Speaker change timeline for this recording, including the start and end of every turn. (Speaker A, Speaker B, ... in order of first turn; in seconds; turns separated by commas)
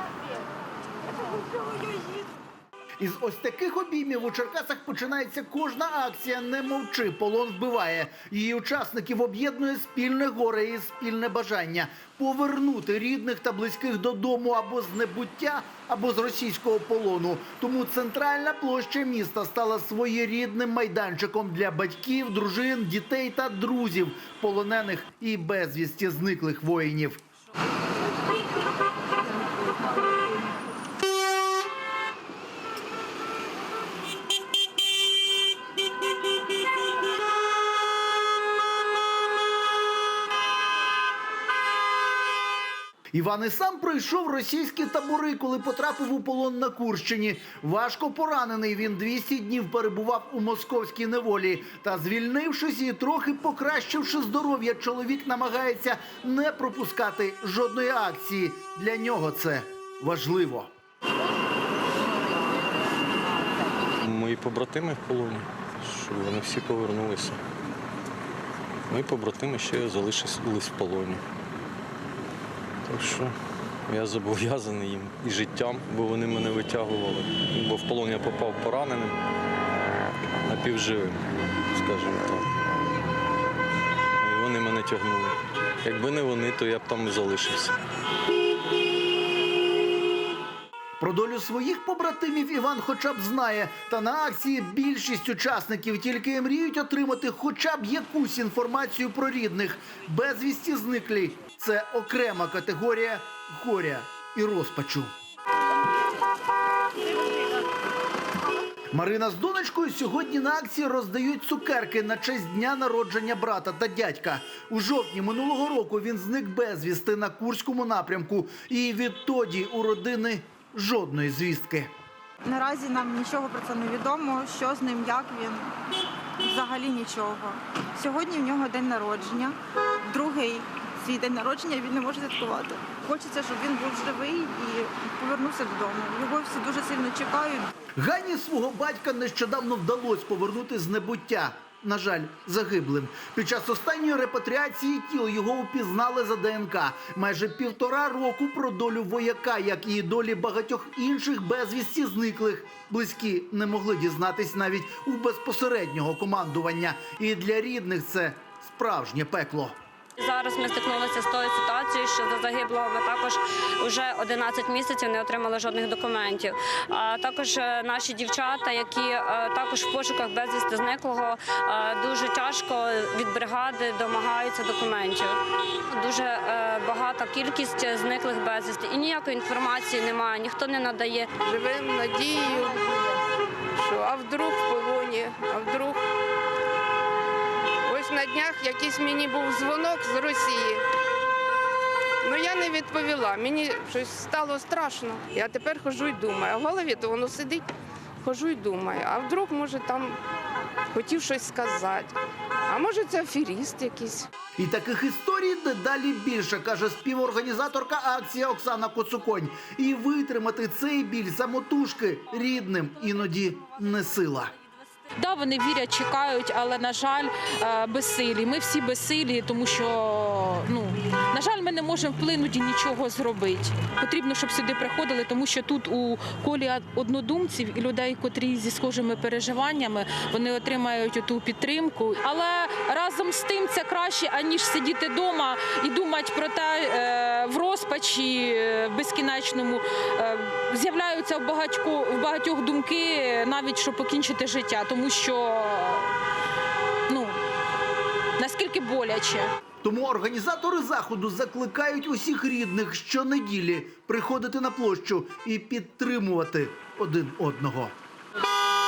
Speaker A: 3.0-27.2, Speaker A: 43.1-60.7, Speaker B: 64.0-67.4, Speaker B: 68.9-71.2, Speaker B: 72.9-73.3, Speaker B: 73.9-79.2, Speaker B: 80.4-82.6, Speaker B: 84.2-87.8, Speaker A: 91.0-105.1, Speaker A: 108.9-121.9, Speaker C: 122.4-125.8, Speaker C: 126.4-137.7, Speaker A: 138.0-159.8, Speaker D: 160.2-175.4, Speaker D: 175.9-181.3, Speaker E: 181.4-182.9, Speaker E: 183.7-186.0, Speaker E: 187.8-190.8, Speaker E: 192.2-197.7, Speaker E: 198.2-200.2, Speaker E: 200.9-204.3, Speaker A: 204.6-214.5, Speaker F: 215.2-246.2, Speaker F: 247.1-247.4, Speaker F: 248.4-249.5, Speaker A: 249.8-257.9